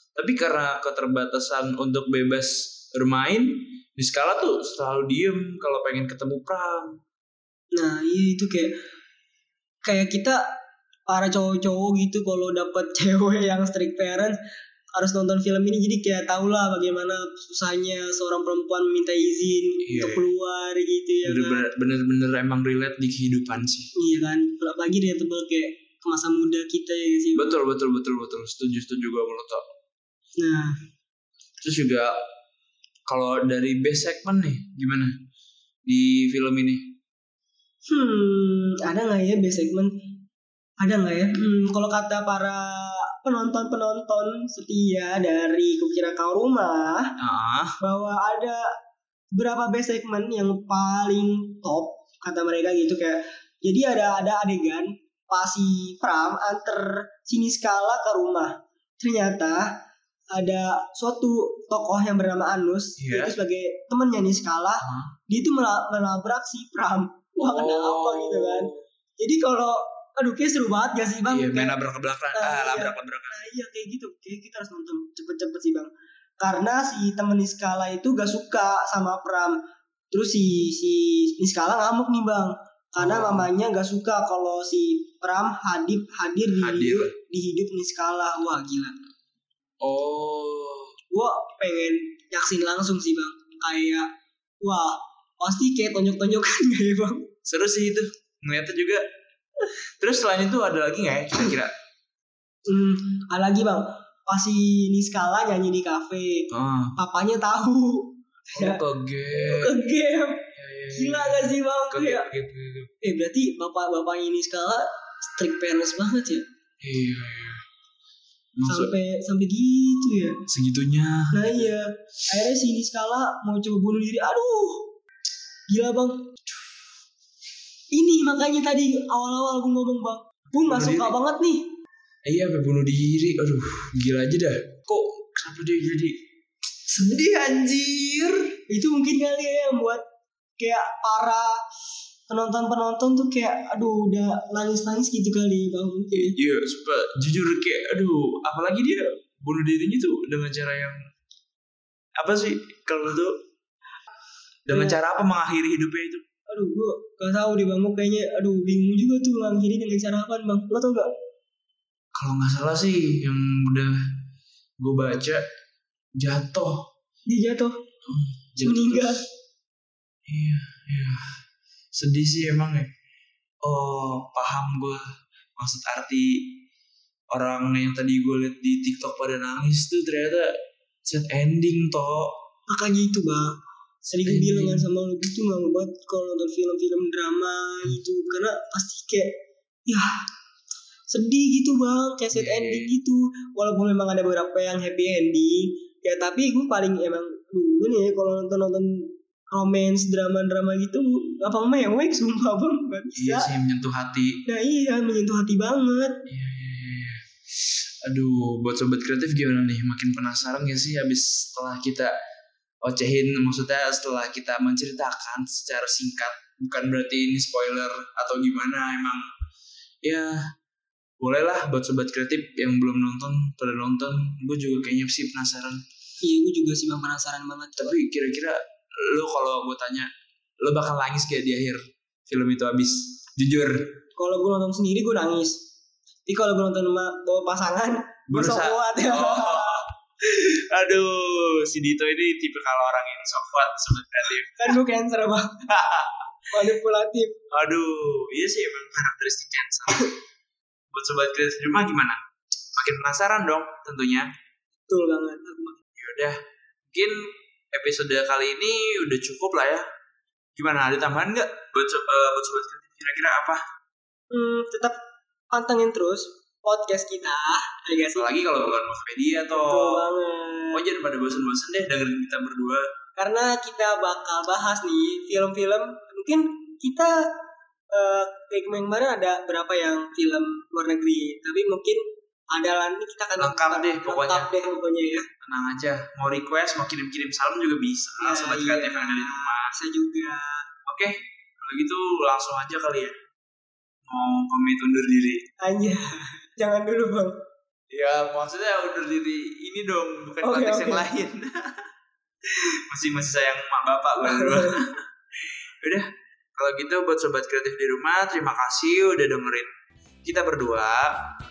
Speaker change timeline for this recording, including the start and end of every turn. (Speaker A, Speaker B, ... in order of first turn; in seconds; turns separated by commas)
Speaker A: 0.1-7.0, Speaker B: 7.7-8.7, Speaker B: 9.8-10.4, Speaker B: 11.1-14.4, Speaker B: 14.9-21.7, Speaker A: 19.8-20.3, Speaker A: 21.2-23.9, Speaker B: 23.9-27.6, Speaker A: 27.4-29.6, Speaker B: 30.4-30.8, Speaker A: 31.6-32.1, Speaker A: 33.1-35.1, Speaker A: 35.9-36.9, Speaker B: 37.9-39.9, Speaker B: 40.8-47.1, Speaker A: 47.2-47.8, Speaker B: 47.8-48.7, Speaker B: 49.3-59.8, Speaker B: 60.3-71.8, Speaker A: 63.0-63.4, Speaker A: 64.8-65.1, Speaker A: 67.4-68.8, Speaker A: 71.3-73.4, Speaker B: 72.3-89.0, Speaker A: 83.0-83.5, Speaker A: 86.6-87.1, Speaker A: 89.8-90.9, Speaker B: 91.1-94.1, Speaker B: 94.6-97.3, Speaker A: 97.5-99.0, Speaker A: 99.7-101.7, Speaker B: 102.7-108.8, Speaker A: 106.5-107.0, Speaker A: 108.5-109.8, Speaker B: 109.4-112.3, Speaker A: 110.5-112.9, Speaker B: 113.0-116.4, Speaker A: 116.8-117.6, Speaker A: 118.6-119.0, Speaker B: 118.7-120.4, Speaker A: 120.5-121.7, Speaker B: 121.3-124.9, Speaker B: 125.7-126.3, Speaker B: 127.9-131.7, Speaker A: 130.6-131.2, Speaker A: 132.2-136.2, Speaker A: 136.9-138.5, Speaker B: 138.7-140.0, Speaker B: 140.6-141.6, Speaker B: 142.3-146.4, Speaker A: 146.2-151.0, Speaker A: 152.2-153.4, Speaker A: 154.7-156.2, Speaker B: 154.7-155.0, Speaker B: 156.5-161.1, Speaker A: 162.1-164.0, Speaker A: 164.8-165.4, Speaker A: 166.2-166.9, Speaker B: 167.3-167.8, Speaker A: 168.1-169.2, Speaker B: 168.6-169.2, Speaker A: 170.3-171.3, Speaker A: 171.9-172.9, Speaker A: 173.6-175.1, Speaker A: 175.6-176.5, Speaker A: 177.3-182.4, Speaker B: 182.7-190.2, Speaker A: 184.2-184.9, Speaker B: 191.1-203.5, Speaker A: 192.3-192.9, Speaker A: 203.2-204.4, Speaker B: 204.5-206.2, Speaker A: 206.3-212.2, Speaker A: 212.8-219.2, Speaker A: 220.0-220.4, Speaker A: 221.2-225.8, Speaker B: 226.2-228.0, Speaker A: 227.8-230.1, Speaker A: 230.6-233.9, Speaker B: 234.2-235.6, Speaker B: 236.3-239.8, Speaker A: 238.3-244.8, Speaker B: 244.6-245.6, Speaker A: 245.7-246.2, Speaker B: 246.5-247.4, Speaker A: 247.5-250.1, Speaker A: 250.9-252.2, Speaker A: 252.7-254.3, Speaker B: 254.9-255.8, Speaker A: 256.0-256.4, Speaker A: 256.9-259.9, Speaker A: 260.6-263.6, Speaker B: 264.3-265.0, Speaker B: 265.5-268.4, Speaker A: 268.1-270.1, Speaker B: 269.6-270.8, Speaker A: 270.7-272.9, Speaker B: 273.2-277.3, Speaker B: 277.9-285.3, Speaker A: 283.4-284.5, Speaker A: 285.4-289.8, Speaker B: 288.2-290.7, Speaker A: 290.9-293.2, Speaker A: 294.1-295.4, Speaker B: 295.6-297.4, Speaker A: 297.9-301.9, Speaker B: 300.4-301.1, Speaker A: 302.4-309.7, Speaker B: 304.2-304.8, Speaker A: 310.2-311.2